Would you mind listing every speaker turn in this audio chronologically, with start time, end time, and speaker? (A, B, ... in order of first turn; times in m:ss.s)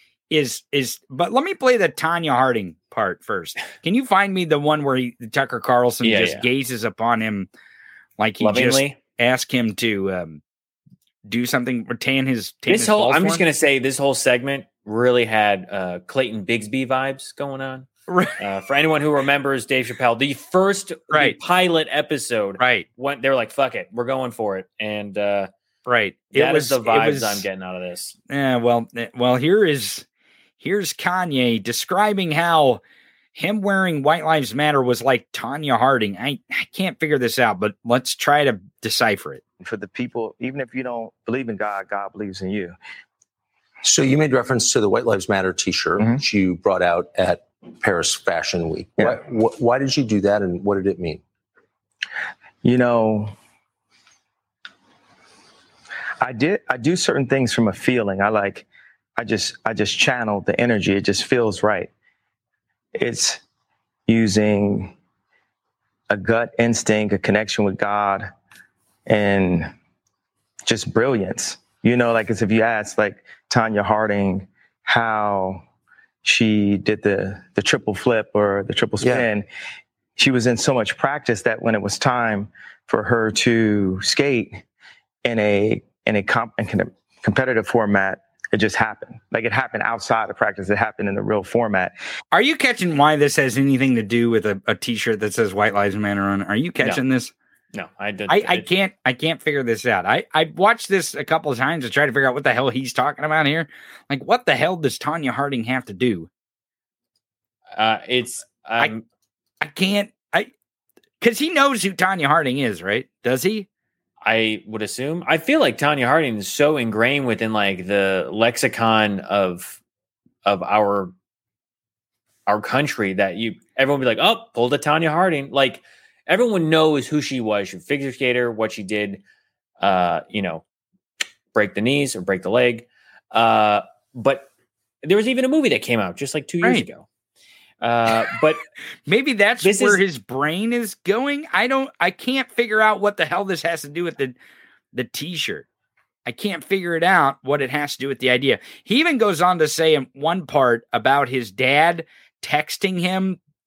0:00.3-0:07.5 A
0:06.0-0:06.4 B
0:08.2-0:10.4 A
0:08.4-0:09.0 B
0:11.3-0:13.4 A
0:12.7-0:25.5 B
0:18.1-0:18.4 A
0:21.1-0:21.4 A
0:22.6-0:22.8 A
0:25.8-0:27.4 A
0:26.3-0:28.1 B
0:28.3-0:30.0 A
0:30.6-0:32.8 A
0:33.3-0:39.4 A
0:39.6-0:42.8 C
0:43.8-0:51.2 D
0:52.6-0:53.3 C
0:56.2-0:58.6 C
0:59.2-1:01.9 C
1:02.9-1:03.4 C
1:04.1-1:04.9 C
1:06.1-1:08.3 C
1:09.1-1:09.7 C
1:10.6-1:15.6 C
1:16.2-1:19.4 C
1:19.0-1:19.2 D
1:20.2-1:24.6 C
1:25.2-1:31.9 C
1:32.3-1:37.3 A
1:37.7-1:38.6 B
1:38.3-1:46.3 A
1:47.7-1:49.0 B
1:49.6-1:50.5 A
1:51.2-1:53.7 A
1:54.2-1:59.8 B
2:00.4-2:01.1 B
2:02.5-2:09.2 B
2:09.8-2:10.6 B
2:11.5-2:14.5 B
2:15.0-2:17.0 B
2:17.8-2:18.6 B
2:19.1-2:24.4 A
2:19.6-2:20.0 B
2:24.9-2:25.6 A
2:26.2-2:33.4 A